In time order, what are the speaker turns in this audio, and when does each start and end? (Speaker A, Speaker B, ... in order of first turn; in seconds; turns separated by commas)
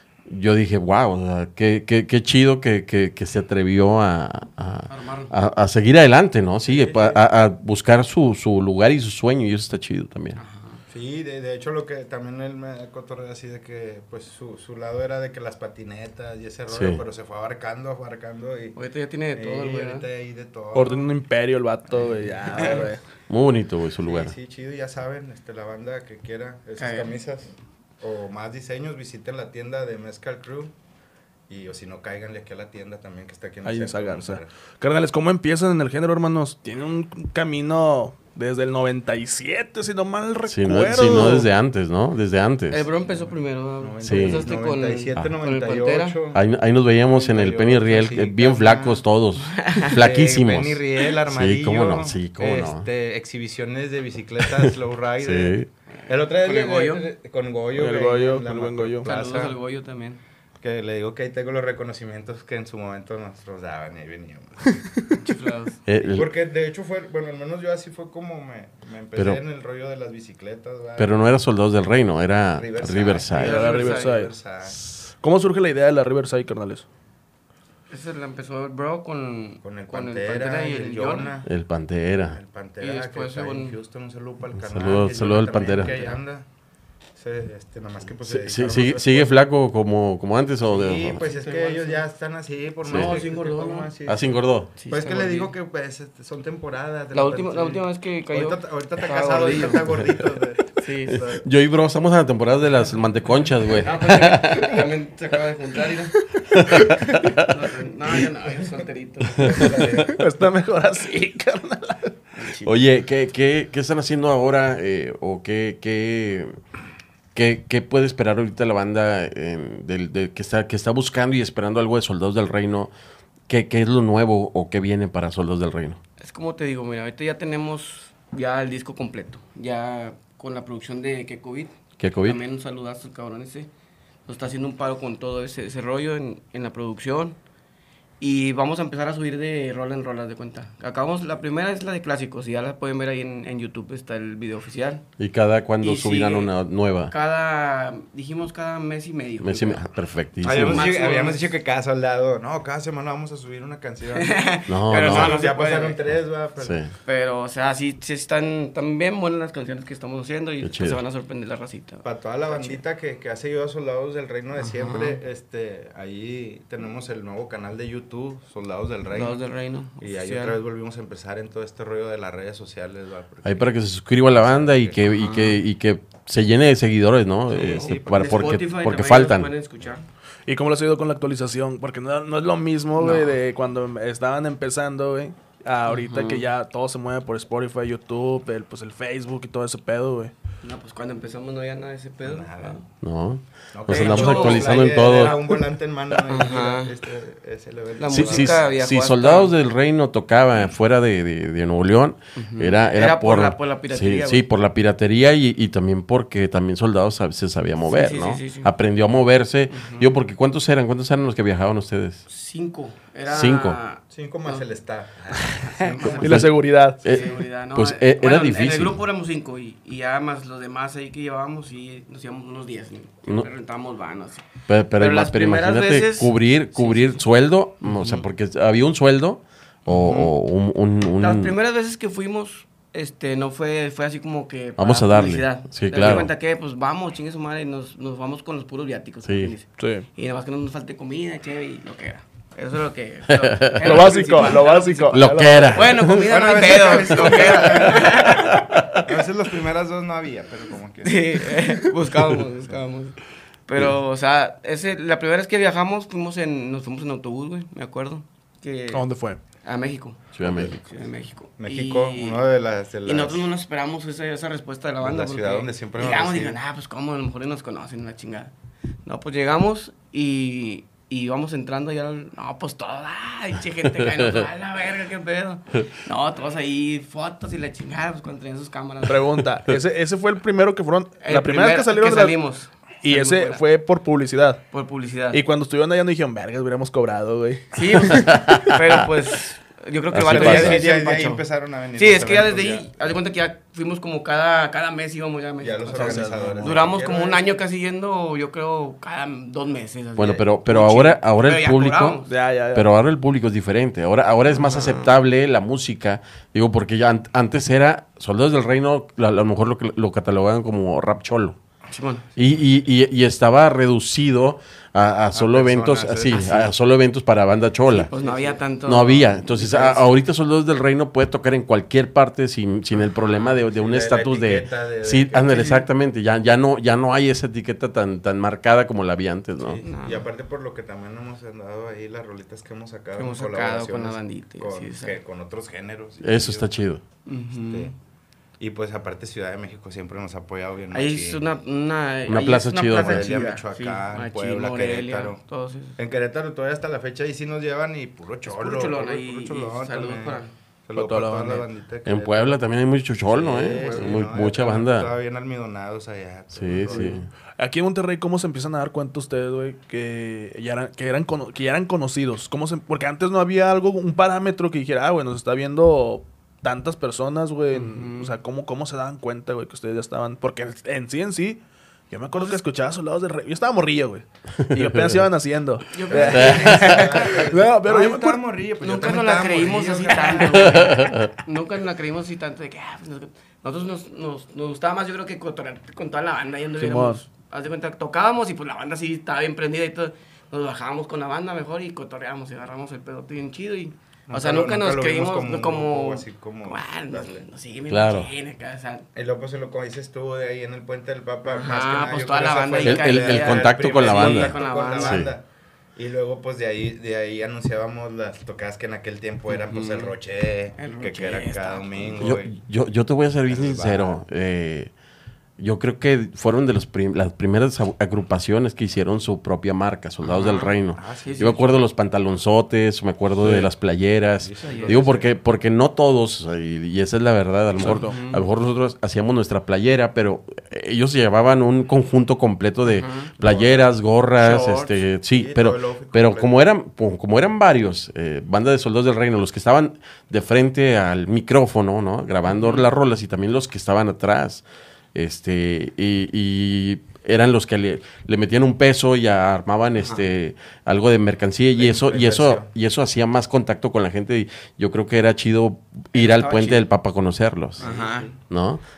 Speaker A: 0.3-10.4, Speaker B: 4.9-5.3, Speaker C: 6.7-7.3, Speaker B: 10.4-10.8, Speaker C: 10.9-18.8, Speaker A: 16.7-17.0, Speaker B: 18.8-20.1, Speaker C: 19.3-21.1, Speaker D: 20.7-23.0, Speaker C: 21.9-22.9, Speaker B: 22.5-22.9, Speaker A: 23.3-24.3, Speaker C: 24.0-30.7, Speaker B: 26.8-27.1, Speaker C: 31.5-34.5, Speaker D: 33.6-41.5, Speaker A: 40.5-42.9, Speaker B: 42.7-46.2, Speaker C: 43.0-46.5, Speaker A: 44.0-44.5, Speaker A: 46.3-52.9, Speaker C: 47.0-49.0, Speaker B: 49.5-50.0, Speaker C: 49.9-55.6, Speaker A: 54.4-55.7, Speaker C: 56.1-59.6, Speaker B: 56.1-57.1, Speaker D: 57.8-59.1, Speaker B: 59.0-60.2, Speaker C: 60.6-64.9, Speaker B: 65.2-65.8, Speaker A: 65.9-66.3, Speaker C: 66.1-71.2, Speaker A: 71.0-73.7, Speaker C: 72.5-74.8, Speaker D: 73.3-74.3, Speaker B: 73.4-74.3, Speaker D: 75.2-76.9, Speaker B: 77.9-81.3, Speaker C: 79.6-81.5, Speaker A: 81.5-82.4, Speaker C: 82.3-86.5, Speaker B: 82.8-83.8, Speaker A: 84.6-86.0, Speaker B: 85.7-86.2, Speaker C: 87.2-89.4, Speaker A: 88.3-91.2, Speaker C: 90.7-101.4, Speaker B: 91.2-92.0, Speaker B: 92.8-93.9, Speaker A: 92.9-93.2, Speaker A: 94.1-94.7, Speaker B: 94.8-95.5, Speaker B: 97.1-100.2, Speaker B: 100.8-101.4, Speaker A: 101.1-104.8, Speaker B: 103.8-106.2, Speaker A: 106.5-107.5, Speaker B: 107.4-109.8, Speaker A: 109.3-110.1, Speaker C: 109.4-110.2, Speaker D: 110.1-112.2, Speaker B: 112.3-112.8, Speaker A: 112.7-116.6, Speaker A: 117.3-122.9, Speaker A: 123.5-126.0, Speaker B: 126.2-133.7, Speaker A: 132.0-132.4, Speaker B: 134.3-137.4, Speaker B: 138.2-145.0, Speaker A: 145.2-147.1, Speaker B: 145.8-146.5, Speaker B: 147.1-149.8, Speaker A: 149.4-150.9, Speaker C: 150.4-154.4, Speaker B: 150.6-151.4, Speaker B: 154.2-156.0, Speaker A: 154.7-155.3, Speaker C: 155.0-156.8, Speaker A: 156.6-156.9, Speaker B: 157.1-162.8, Speaker A: 160.6-161.0, Speaker C: 162.0-169.4, Speaker B: 164.6-165.2, Speaker B: 169.1-170.6, Speaker C: 170.0-173.7, Speaker A: 173.4-179.5, Speaker C: 174.3-175.4, Speaker B: 175.1-175.6, Speaker C: 177.5-178.6, Speaker B: 177.5-180.0, Speaker D: 180.5-190.3, Speaker B: 183.0-183.4, Speaker B: 185.9-186.4, Speaker B: 190.6-192.8, Speaker C: 192.2-192.8, Speaker A: 193.0-195.4, Speaker C: 193.7-198.7, Speaker B: 193.9-195.4, Speaker B: 196.3-196.9, Speaker B: 198.0-199.5, Speaker A: 198.1-212.2, Speaker B: 202.4-204.4, Speaker B: 207.9-208.7, Speaker B: 209.7-210.1, Speaker B: 212.3-214.7, Speaker A: 213.3-213.8, Speaker C: 214.1-216.2, Speaker B: 215.4-224.5, Speaker A: 216.0-219.0, Speaker D: 216.2-217.0, Speaker A: 224.7-231.6, Speaker B: 225.0-227.2, Speaker B: 227.8-228.2, Speaker B: 229.9-230.3, Speaker B: 231.2-248.7, Speaker A: 234.8-236.3, Speaker A: 239.3-239.5, Speaker D: 239.8-240.1, Speaker A: 243.3-244.2, Speaker D: 243.8-245.9, Speaker A: 245.1-246.3, Speaker C: 246.0-251.6, Speaker A: 246.8-248.9, Speaker B: 251.1-259.1, Speaker D: 258.9-259.4, Speaker B: 259.6-262.5, Speaker A: 260.4-260.8, Speaker C: 261.6-263.5, Speaker B: 263.0-268.5, Speaker C: 265.0-266.6, Speaker B: 269.1-279.4, Speaker A: 274.2-274.4, Speaker D: 279.1-282.4, Speaker B: 281.2-283.6, Speaker D: 283.0-284.6, Speaker B: 284.7-285.4, Speaker D: 285.3-288.2, Speaker B: 287.7-291.4, Speaker A: 288.0-289.1, Speaker A: 290.1-290.8, Speaker C: 290.2-292.9, Speaker B: 292.0-302.3, Speaker C: 295.6-297.4, Speaker D: 295.9-296.9, Speaker A: 300.2-302.2, Speaker D: 302.3-302.9, Speaker A: 302.7-311.6, Speaker B: 304.6-305.1, Speaker B: 311.9-312.2, Speaker A: 312.4-318.1, Speaker C: 315.3-316.7, Speaker B: 317.9-320.1, Speaker C: 318.1-318.6, Speaker A: 318.8-329.8, Speaker C: 323.3-325.8, Speaker B: 325.5-325.9, Speaker C: 329.6-336.7, Speaker B: 329.8-330.2, Speaker B: 333.2-335.2, Speaker A: 336.2-337.0, Speaker B: 337.3-337.9, Speaker C: 337.5-337.9, Speaker C: 338.6-341.4, Speaker B: 340.9-346.0, Speaker A: 342.3-343.4, Speaker C: 342.9-345.4, Speaker C: 346.0-352.6, Speaker B: 348.4-350.5, Speaker D: 350.9-351.7, Speaker A: 352.1-355.1, Speaker C: 353.3-357.2, Speaker B: 353.7-354.2, Speaker A: 356.5-357.3, Speaker D: 356.8-378.4, Speaker B: 367.7-368.4, Speaker B: 372.3-372.6, Speaker A: 374.6-375.3, Speaker B: 375.9-377.5, Speaker C: 376.1-381.1, Speaker A: 376.3-377.1, Speaker B: 378.8-399.1, Speaker A: 380.6-381.3, Speaker D: 386.8-387.2, Speaker C: 394.3-397.4, Speaker A: 397.9-398.3, Speaker C: 399.1-405.4, Speaker B: 401.5-405.2, Speaker A: 402.8-405.3, Speaker C: 406.0-412.5, Speaker B: 409.5-410.1, Speaker B: 410.8-412.2, Speaker A: 412.2-414.9, Speaker C: 413.5-414.2, Speaker A: 415.6-444.6, Speaker B: 420.2-421.7, Speaker C: 420.9-421.6, Speaker D: 423.4-423.7, Speaker C: 424.4-425.3, Speaker B: 424.7-425.1, Speaker D: 427.8-428.2, Speaker B: 427.9-428.4, Speaker B: 432.9-433.3, Speaker C: 433.4-433.9, Speaker B: 434.4-435.0, Speaker C: 435.3-436.6, Speaker B: 442.5-442.8, Speaker A: 445.1-457.9, Speaker C: 451.8-452.7, Speaker B: 456.1-456.9, Speaker C: 457.8-458.4, Speaker B: 457.8-458.3, Speaker A: 458.5-458.8